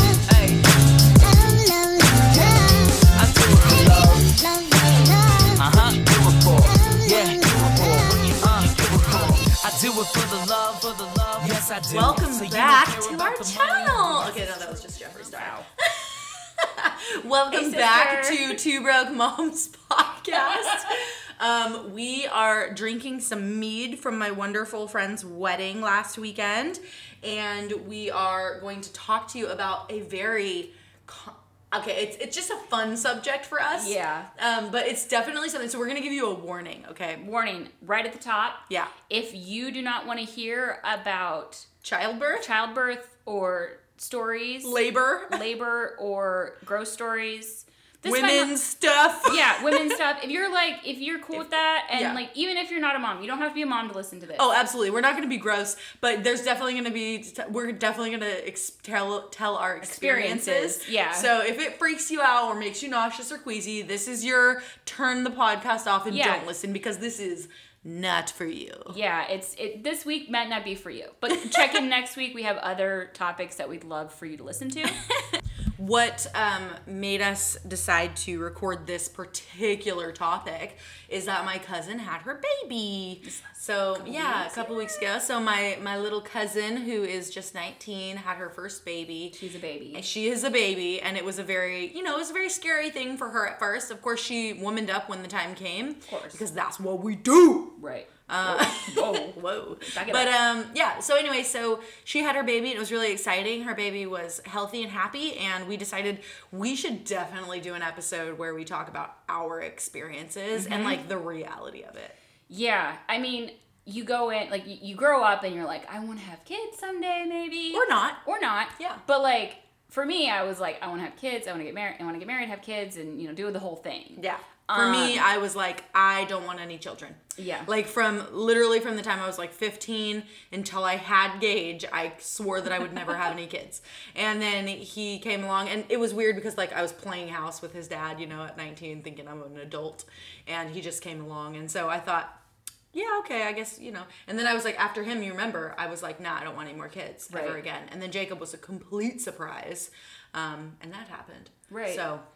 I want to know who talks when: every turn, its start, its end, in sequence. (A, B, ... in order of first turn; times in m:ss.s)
0:00.2-0:00.7 A
0:01.7-0:14.4 A
0:11.9-0:37.2 B
0:14.9-0:15.7 C
0:17.5-0:18.6 C
0:33.7-0:34.3 C
0:37.2-0:41.7 C
0:41.8-0:42.5 B
0:42.3-0:44.7 C
0:44.6-0:45.4 B
0:45.3-0:48.5 C
0:48.0-0:50.0 B
0:49.2-0:54.5 C
0:51.3-0:52.2 B
0:54.4-1:09.0 B
0:59.8-1:01.3 C
1:06.1-1:06.4 C
1:08.9-1:15.0 C
1:11.5-1:11.8 B
1:15.8-1:29.4 B
1:23.2-1:25.0 C
1:29.3-1:30.1 C
1:29.9-1:37.8 B
1:36.1-1:36.4 C
1:37.8-1:40.3 C
1:38.3-1:52.2 B
1:50.5-1:51.0 C
1:52.5-2:05.2 C
1:57.7-1:58.2 B
1:58.8-1:59.0 B
2:04.2-2:22.4 B
2:07.4-2:07.7 C
2:22.9-2:32.2 B
2:27.3-2:27.6 C
2:31.7-2:32.1 C